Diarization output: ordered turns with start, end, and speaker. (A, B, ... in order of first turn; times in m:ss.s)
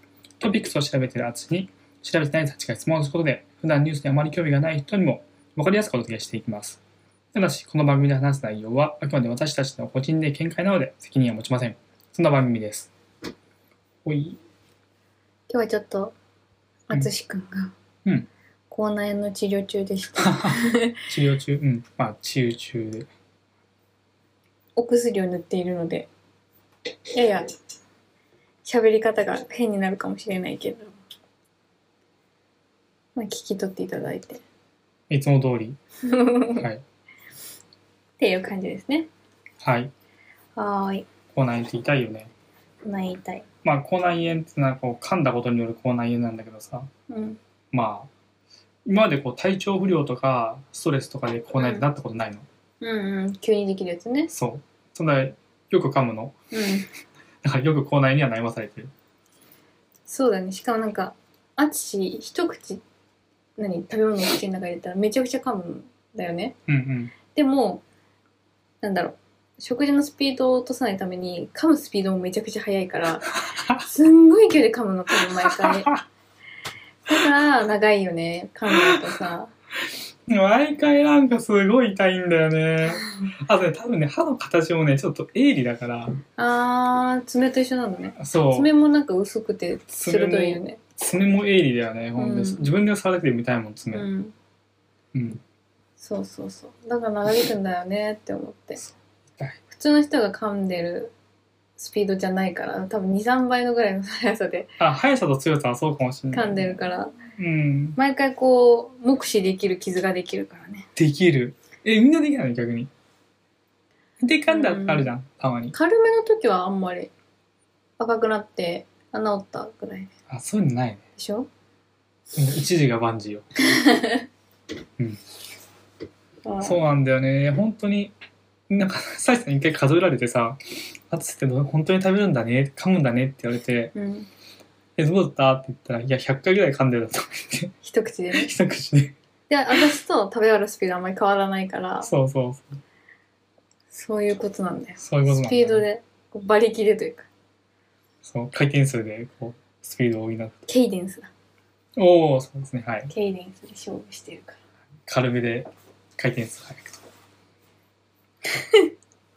0:00.4-0:06.8 A
0:07.3-0:12.9 A
0:14.0-0:14.4 A
0:15.5-0:16.1 B
0:16.9-0:17.7 B
0:18.7-0:21.0 B
0:20.2-0:23.1 A
0:24.8-0:26.1 B
0:27.1-0:27.5 B
0:28.6-0:30.9 B
0:33.1-0:34.4 B
0:35.1-0:35.8 A
0:36.0-0:36.6 B
0:36.4-0:36.8 A
0:38.2-0:39.1 B
0:39.6-0:39.9 A
0:40.6-0:41.1 B
0:41.3-0:42.3 A
0:42.8-0:43.4 B
0:43.6-0:46.9 A
0:47.1-0:47.4 B
0:47.7-0:48.1 A
0:48.8-0:52.4 A
0:51.6-0:51.8 B
0:52.8-0:54.3 B
0:54.3-0:56.3 A
0:56.5-0:56.9 B
0:57.4-0:58.9 A
1:00.1-1:02.8 B
1:03.6-1:06.6 B
1:06.7-1:07.1 A
1:07.3-1:07.8 B
1:08.8-1:13.3 B
1:13.4-1:13.9 A
1:13.8-1:15.9 B
1:15.4-1:16.0 A
1:17.1-1:19.5 B
1:18.7-1:19.2 A
1:20.3-1:26.2 A
1:26.4-1:30.8 B
1:28.2-1:28.7 A
1:29.9-1:34.1 A
1:32.2-1:32.7 B
1:33.9-1:34.3 B
1:35.1-1:35.4 A
1:36.0-1:38.8 B
1:38.8-1:39.6 A
1:39.7-1:41.1 B
1:41.8-1:44.7 B
1:44.8-1:46.8 A
1:46.3-1:47.2 B
1:47.3-1:48.0 A
1:48.0-1:50.9 B
1:51.0-1:52.9 A
1:54.2-1:55.7 A
1:54.5-1:55.1 B
1:55.7-1:57.1 B
1:58.0-2:00.1 B
2:00.3-2:01.0 A
2:01.2-2:01.5 B
2:02.3-2:03.5 A
2:03.7-2:04.3 B
2:06.4-2:06.8 B
2:06.6-2:08.1 A
2:08.7-2:13.9 A
2:13.9-2:14.3 B
2:15.0-2:17.7 A
2:17.8-2:18.5 B
2:18.3-2:19.1 A
2:19.5-2:22.1 B
2:22.0-2:22.8 A
2:23.9-2:27.3 B
2:25.0-2:25.8 A
2:28.2-2:30.6 A
2:30.6-2:31.3 B
2:32.0-2:33.1 A
2:33.1-2:34.6 B
2:35.1-2:37.0 A
2:38.5-2:38.9 B